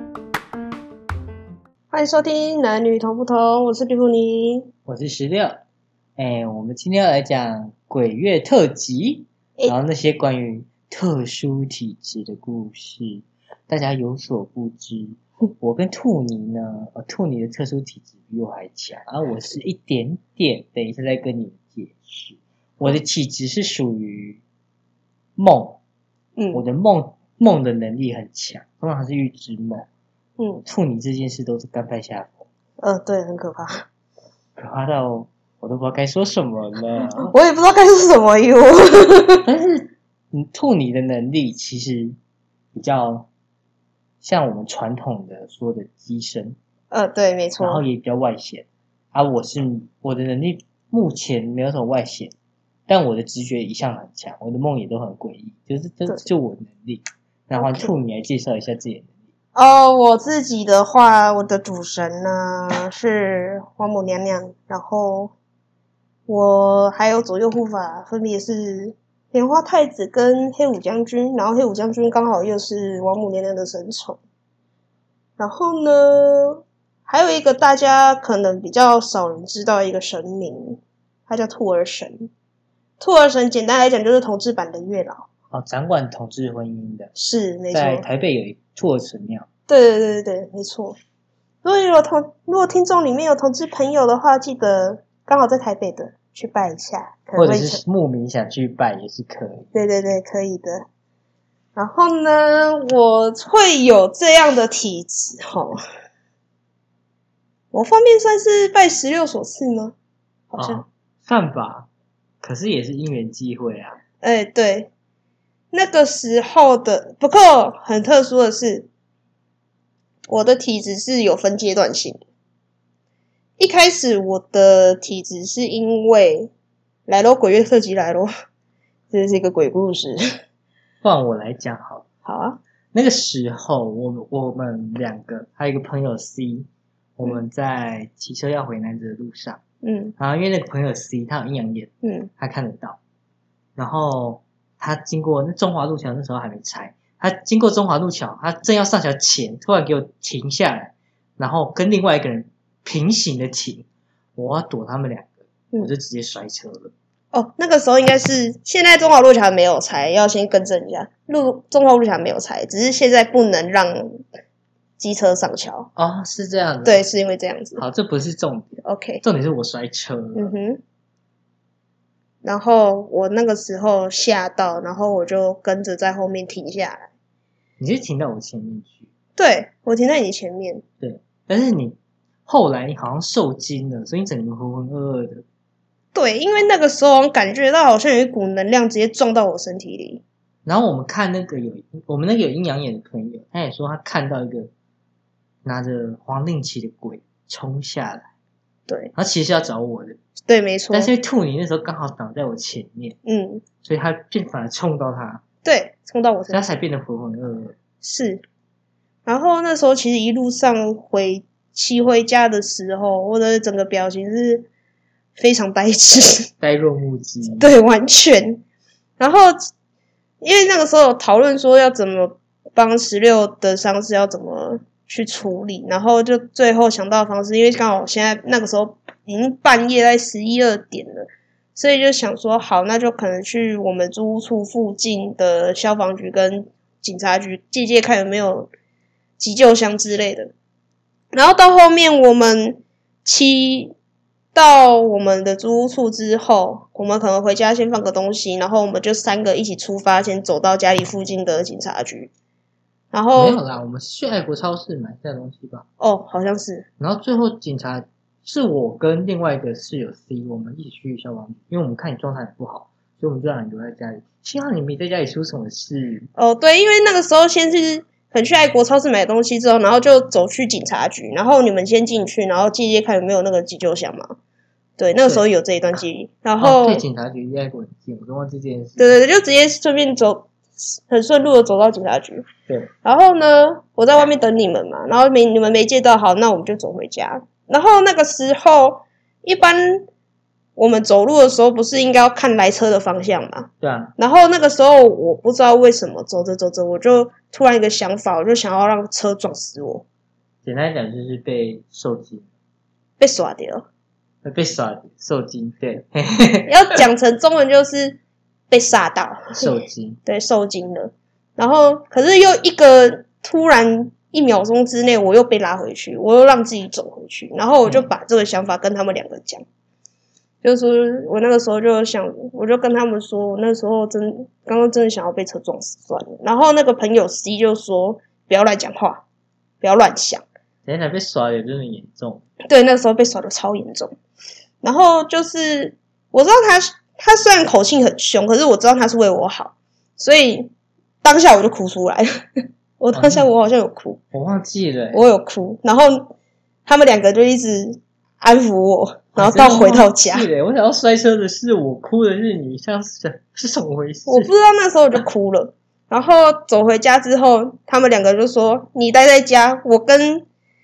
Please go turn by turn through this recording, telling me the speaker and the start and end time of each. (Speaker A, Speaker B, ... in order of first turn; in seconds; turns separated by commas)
Speaker A: 1.9-4.7, Speaker B: 4.9-5.6, Speaker B: 6.2-24.4, Speaker B: 25.4-25.8, Speaker A: 26.4-26.6, Speaker B: 26.5-29.9, Speaker A: 30.4-30.6, Speaker B: 30.6-32.5, Speaker A: 32.8-33.9, Speaker B: 34.6-37.3, Speaker A: 37.2-39.5, Speaker B: 39.5-42.2, Speaker B: 42.8-43.3, Speaker B: 44.2-46.6, Speaker A: 46.9-47.8, Speaker B: 47.6-52.3, Speaker B: 52.9-59.1, Speaker A: 57.6-57.9, Speaker A: 59.5-65.3, Speaker A: 66.3-74.2, Speaker A: 75.4-82.3, Speaker A: 83.0-85.3, Speaker B: 85.5-87.1, Speaker A: 87.2-88.0, Speaker B: 87.7-89.5, Speaker A: 89.7-91.0, Speaker A: 91.6-97.8, Speaker B: 97.4-99.7, Speaker A: 99.7-100.9, Speaker A: 101.8-105.8, Speaker A: 107.7-110.0, Speaker A: 110.5-110.8, Speaker B: 110.6-111.9, Speaker B: 112.4-114.0, Speaker A: 114.2-114.9, Speaker A: 115.7-118.9, Speaker A: 120.3-122.2, Speaker A: 123.6-126.5, Speaker A: 127.1-128.3, Speaker A: 129.1-130.2, Speaker B: 131.0-132.1, Speaker A: 132.2-132.6, Speaker B: 132.9-139.6, Speaker A: 139.8-140.2, Speaker B: 140.2-143.0, Speaker A: 142.0-142.3, Speaker B: 143.8-153.9, Speaker B: 154.4-156.9, Speaker A: 157.3-164.2, Speaker A: 165.0-165.9, Speaker B: 166.0-167.0, Speaker A: 166.8-167.8, Speaker B: 167.8-170.5, Speaker A: 168.8-169.2, Speaker A: 170.3-170.8, Speaker A: 172.4-177.1, Speaker B: 177.8-179.1, Speaker A: 179.4-180.8, Speaker B: 181.0-185.4, Speaker A: 186.1-190.2, Speaker B: 190.7-194.7, Speaker B: 195.6-198.3, Speaker A: 198.9-199.1, Speaker B: 199.2-200.2, Speaker A: 200.5-201.1, Speaker B: 200.9-203.2, Speaker A: 203.2-203.6, Speaker B: 203.8-205.4, Speaker A: 205.6-206.7, Speaker B: 206.5-207.8, Speaker A: 208.0-208.4, Speaker A: 209.3-214.7, Speaker A: 215.4-216.5, Speaker B: 216.6-217.7, Speaker A: 217.6-218.6, Speaker A: 219.2-219.6, Speaker A: 220.4-238.7, Speaker A: 239.4-240.5, Speaker A: 241.3-243.9, Speaker A: 244.5-252.3, Speaker A: 253.1-253.6, Speaker B: 253.3-255.9, Speaker A: 256.0-256.9, Speaker B: 257.0-266.3, Speaker A: 266.4-274.4, Speaker A: 275.0-277.0, Speaker B: 276.6-279.1, Speaker A: 279.0-282.4, Speaker A: 283.0-290.1, Speaker A: 290.8-300.0, Speaker B: 293.8-294.1, Speaker B: 300.6-302.5, Speaker A: 303.2-303.9, Speaker B: 304.4-306.7, Speaker A: 306.7-308.2, Speaker A: 308.7-319.6, Speaker B: 309.5-310.2, Speaker A: 320.6-329.2, Speaker A: 329.8-330.4, Speaker B: 330.9-332.4, Speaker A: 332.6-334.1, Speaker A: 334.8-340.7, Speaker A: 341.2-342.3, Speaker A: 343.0-344.2, Speaker B: 343.1-343.5, Speaker B: 344.3-345.2, Speaker A: 345.1-346.3, Speaker A: 346.9-350.5, Speaker B: 349.4-354.5, Speaker A: 354.3-360.4